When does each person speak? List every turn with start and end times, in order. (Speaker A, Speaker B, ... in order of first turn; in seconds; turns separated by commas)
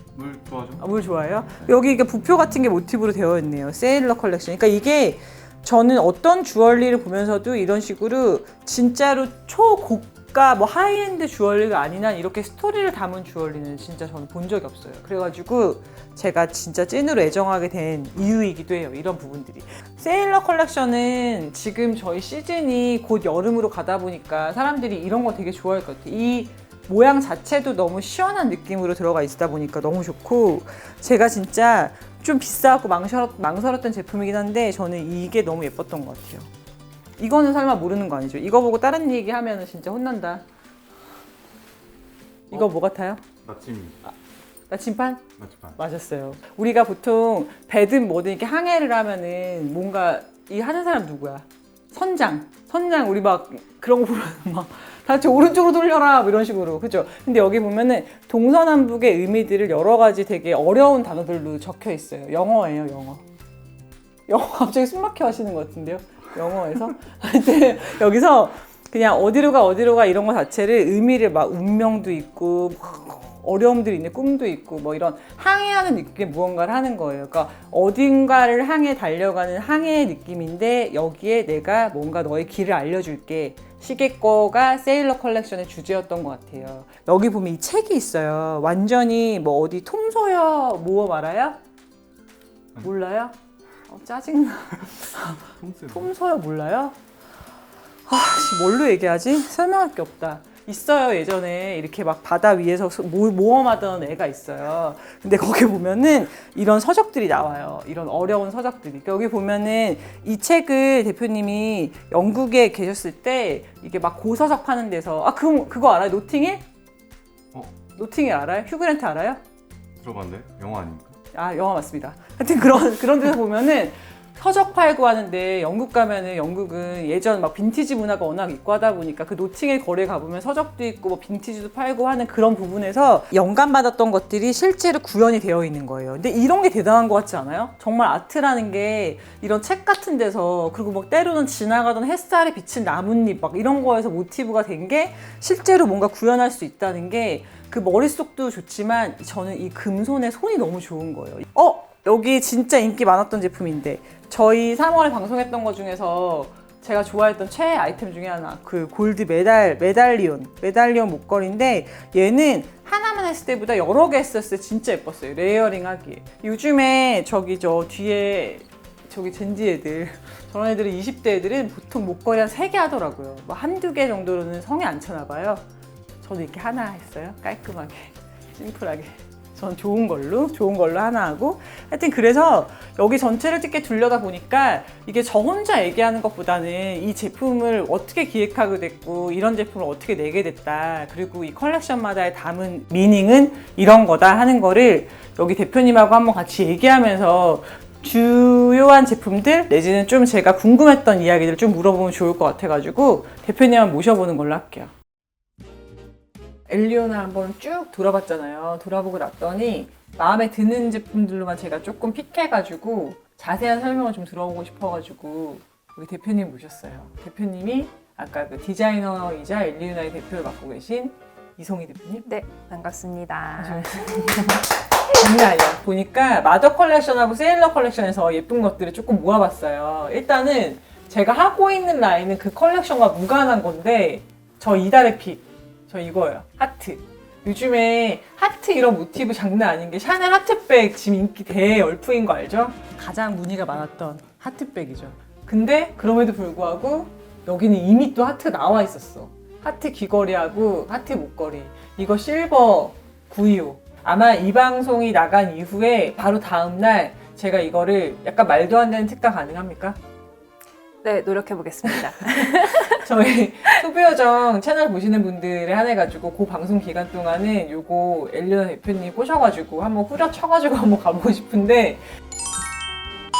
Speaker A: 0.1-0.8, Speaker B: 0.8-36.5, Speaker B: 37.2-40.4, Speaker B: 42.5-43.2, Speaker A: 43.4-44.0, Speaker B: 44.7-63.2, Speaker A: 45.4-45.8, Speaker B: 64.3-91.6, Speaker B: 92.8-93.3, Speaker B: 93.9-96.9, Speaker A: 95.5-96.1, Speaker B: 98.1-116.6, Speaker B: 118.0-119.4, Speaker A: 120.0-121.2, Speaker B: 121.3-175.6, Speaker B: 176.2-204.9, Speaker B: 206.7-222.2, Speaker C: 222.2-224.5, Speaker B: 223.6-260.0, Speaker C: 261.0-263.1, Speaker B: 261.8-272.0